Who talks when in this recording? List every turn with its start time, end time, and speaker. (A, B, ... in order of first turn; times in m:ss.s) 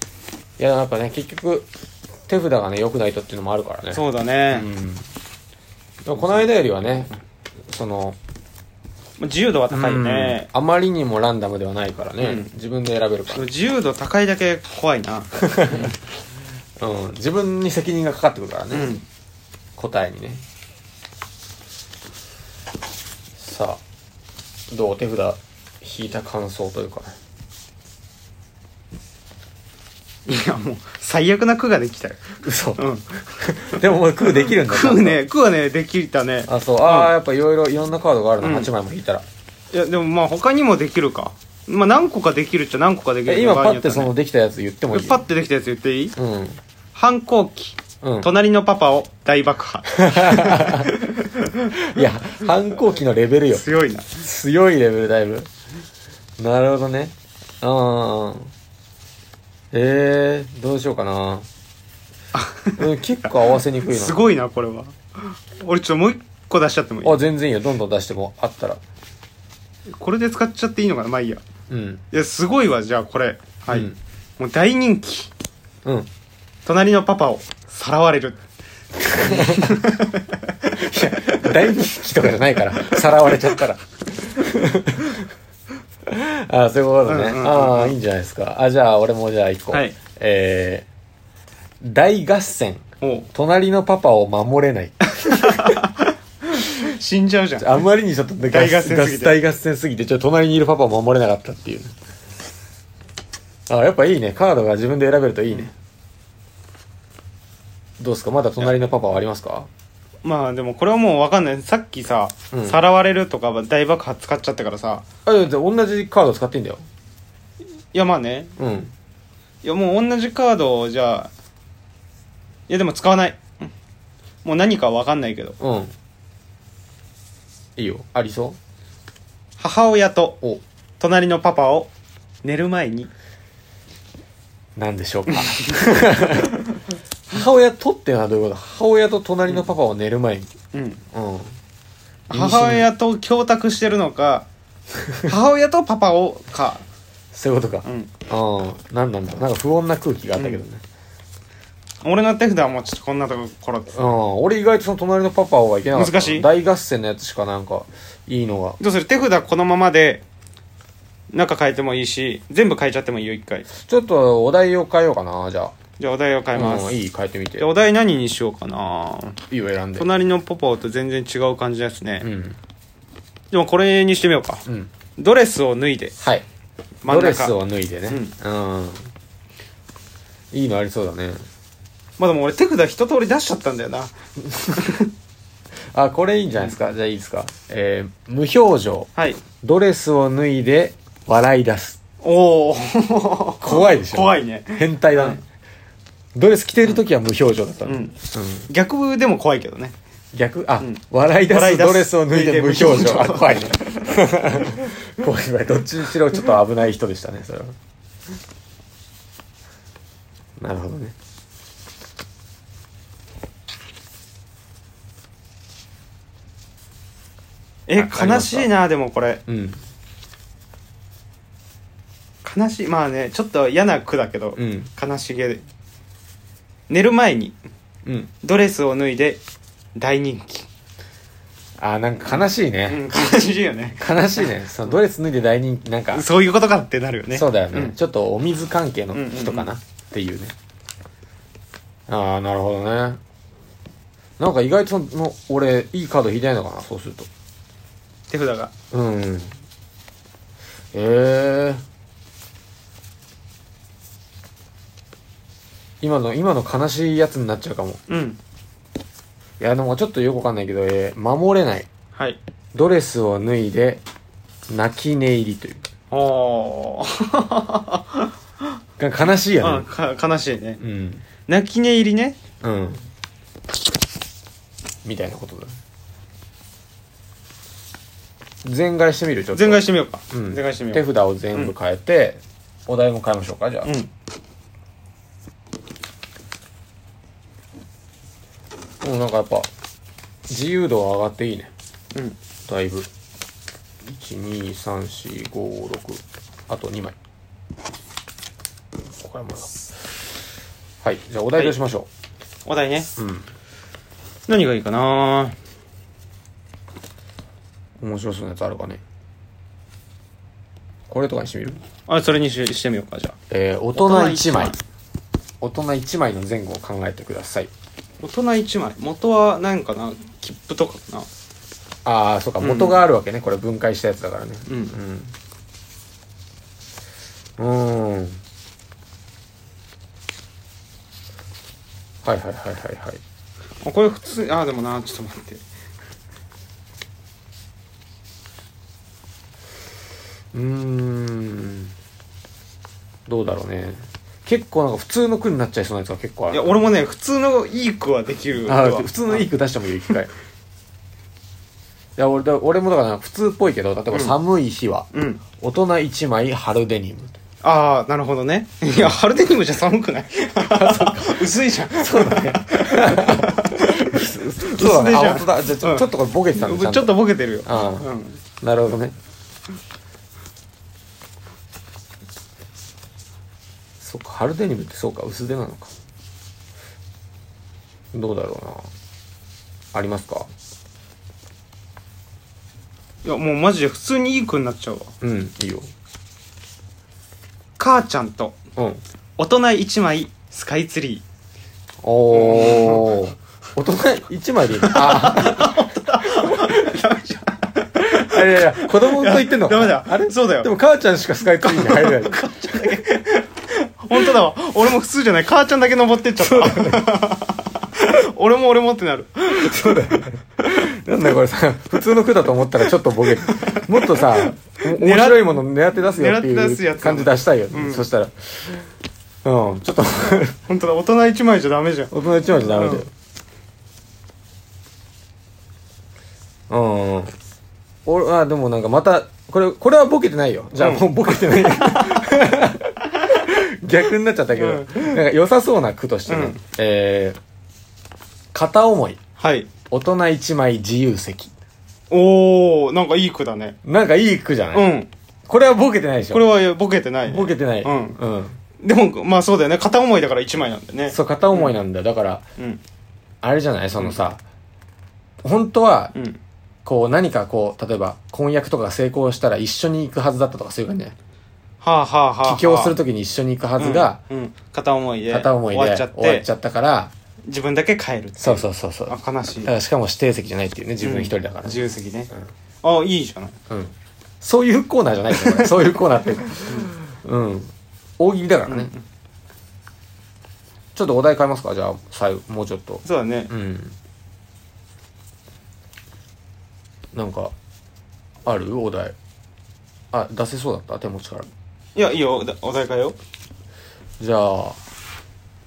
0:00.6-0:01.7 A
0:02.3-0:05.1 A
0:03.9-0:04.7 B
0:06.0-0:07.2 A
0:07.7-0:08.2 A
0:09.2-0:10.5 B
0:09.7-0:13.5 A
0:12.2-0:12.5 B
0:13.3-0:15.9 B
0:15.4-0:15.9 A
0:16.8-0:19.0 A
0:18.7-0:19.0 B
0:19.8-0:20.4 A
0:23.4-0:23.8 A
0:24.7-0:27.2 A
0:30.3-0:33.2 B
0:32.4-0:35.2 A
0:34.3-0:37.2 B
0:36.5-0:39.2 A
0:38.4-0:38.7 B
0:39.7-0:44.1 B
0:43.3-0:45.2 A
0:44.9-0:46.2 B
0:46.2-0:46.6 A
0:47.0-0:52.1 B
0:48.0-0:48.3 A
0:50.0-0:50.9 A
0:51.8-0:55.5 A
0:53.5-0:54.1 B
0:56.4-0:58.5 A
0:59.7-1:01.5 A
1:02.3-1:07.2 B
1:02.8-1:04.2 A
1:07.0-1:08.8 A
1:10.0-1:11.4 B
1:11.7-1:12.0 A
1:12.1-1:15.3 B
1:13.7-1:14.0 A
1:15.8-1:16.1 A
1:16.6-1:18.4 B
1:19.0-1:19.7 A
1:19.2-1:20.4 B
1:20.7-1:25.3 A
1:22.7-1:23.6 B
1:26.1-1:30.9 A
1:27.1-1:28.0 B
1:31.8-1:35.7 A
1:33.0-1:33.3 B
1:35.2-1:37.8 B
1:37.6-1:41.9 A
1:38.5-1:39.4 B
1:43.7-1:45.7 A
1:48.0-1:49.7 A
1:50.2-1:55.1 B
1:52.5-1:52.8 A
1:55.2-1:56.8 A
1:57.9-1:58.5 B
1:58.6-1:58.9 A
1:59.6-2:01.3 B
2:02.7-2:03.7 B
2:04.4-2:05.6 B
2:05.6-2:05.9 A
2:07.8-2:08.6 A
2:09.6-2:10.4 B
2:11.0-2:11.9 B
2:12.4-2:13.1 B
2:14.8-2:16.8 A
2:15.3-2:15.8 B
2:17.3-2:20.5 A
2:20.7-2:21.0 B
2:21.1-2:21.6 A
2:22.3-2:24.5 B
2:22.3-2:22.9 A
2:25.3-2:26.8 B
2:27.3-2:30.8 A
2:27.8-2:28.1 B
2:30.4-2:30.6 B
2:32.0-2:34.0 B
2:33.9-2:38.8 A
2:35.9-2:36.5 B
2:38.8-2:40.2 B
2:41.3-2:43.7 B
2:43.7-2:45.8 A
2:46.0-2:47.0 B
2:46.5-2:47.7 A
2:47.6-2:49.4 B
2:49.5-2:50.1 A
2:50.0-2:52.3 B
2:52.2-2:52.6 A
2:53.5-2:54.6 B
2:55.2-2:56.2 B
2:57.0-2:57.6 B
2:57.1-2:59.1 A
2:58.1-2:58.3 B
3:00.5-3:01.4 A
3:02.2-3:04.1 B
3:04.5-3:05.0 A
3:05.9-3:12.0 A
3:09.2-3:09.4 B
3:12.2-3:15.4 B
3:13.6-3:15.4 A
3:16.4-3:18.7 A
3:17.8-3:18.2 B
3:18.7-3:20.0 B
3:20.3-3:27.7 A
3:20.8-3:23.8 B
3:30.6-3:31.2 A
3:37.9-3:39.4 B
3:38.0-3:38.7 A
3:39.5-3:39.8 A
3:42.4-3:45.6 B
3:44.6-3:44.9 A
3:46.9-3:47.6 B
3:48.1-3:48.3 A
3:48.4-3:49.4 B
3:50.0-3:50.7 B
3:51.8-3:53.4 A
3:52.9-3:54.5 B
3:54.0-3:56.2 A
3:56.1-3:58.0 B
3:57.3-4:00.5 A
3:59.1-3:59.7 B
4:02.1-4:03.2 A
4:04.4-4:07.3 A
4:08.3-4:08.7 B
4:08.9-4:09.5 A
4:10.9-4:11.8 A
4:16.0-4:18.0 A
4:18.1-4:18.4 B
4:19.6-4:21.9 A
4:22.7-4:24.0 A
4:24.7-4:25.8 A
4:26.1-4:28.3 B
4:29.0-4:29.9 A
4:29.6-4:30.8 B
4:30.8-4:31.2 A
4:31.5-4:32.4 B
4:32.6-4:33.0 A
4:35.0-4:35.8 A
4:38.6-4:43.9 A
4:39.5-4:41.7 B
4:43.8-4:44.1 B
4:49.0-4:49.7 A
4:50.5-4:51.7 A
4:52.7-4:53.1 A
4:54.0-4:57.2 A
4:59.2-4:59.7 A
5:01.0-5:02.1 A
5:02.7-5:03.1 B
5:03.2-5:03.5 A
5:04.5-5:05.6 B
5:08.0-5:09.0 A
5:11.1-5:11.8 A
5:12.1-5:13.4 B
5:13.5-5:14.8 A
5:14.0-5:14.8 B
5:15.6-5:17.7 A
5:18.2-5:21.3 B
5:22.0-5:25.3 A
5:22.6-5:23.0 B
5:24.7-5:25.0 B
5:27.6-5:28.4 A
5:32.2-5:33.2 A
5:33.8-5:35.6 B
5:40.5-5:41.9 A
5:43.3-5:46.7 A
5:46.5-5:49.5 B
5:48.7-5:50.3 A
5:52.2-5:57.4 A
5:55.1-5:55.4 B
5:57.6-6:08.4 B
6:00.6-6:08.1 A
6:08.6-6:09.2 A
6:14.0-6:15.9 A
6:18.1-6:18.9 A
6:19.9-6:20.5 A
6:23.2-6:25.1 B
6:25.2-6:25.9 A
6:27.8-6:28.6 B
6:28.8-6:29.0 A
6:29.4-6:31.2 B
6:32.0-6:36.7 A
6:32.3-6:33.1 B
6:34.8-6:40.7 B
6:38.0-6:43.4 A
6:41.6-6:43.2 B
6:44.0-6:50.2 B
6:46.4-6:47.2 A
6:49.6-6:58.8 A
6:53.4-6:58.1 B
6:59.4-7:00.6 A
7:00.7-7:03.1 B
7:02.1-7:03.1 A
7:06.7-7:07.3 A
7:08.1-7:17.4 A
7:10.8-7:11.8 B
7:14.6-7:15.2 B
7:16.3-7:16.6 B
7:18.5-7:19.2 A
7:19.4-7:19.7 B
7:19.9-7:21.5 A
7:22.1-7:23.8 B
7:23.8-7:24.9 A
7:24.7-7:25.1 B
7:25.5-7:26.6 A
7:26.3-7:28.2 B
7:27.3-7:28.6 A
7:28.8-7:31.8 B
7:31.1-7:32.4 A
7:33.4-7:34.4 A
7:35.4-7:36.1 A
7:36.1-7:36.4 B
7:36.8-7:41.2 A
7:41.8-7:43.0 B
7:42.4-7:44.2 A
7:43.8-7:46.5 B
7:45.3-7:47.1 A
7:47.5-7:49.7 B
7:48.4-7:52.4 A
7:51.0-7:52.3 B
7:52.8-7:53.6 B
7:53.7-7:58.9 A
7:58.7-7:59.0 B
8:01.0-8:04.0 A
8:03.0-8:03.5 B
8:07.1-8:07.5 A
8:08.5-8:09.2 A
8:10.1-8:11.5 A
8:12.0-8:13.2 B
8:14.2-8:14.8 A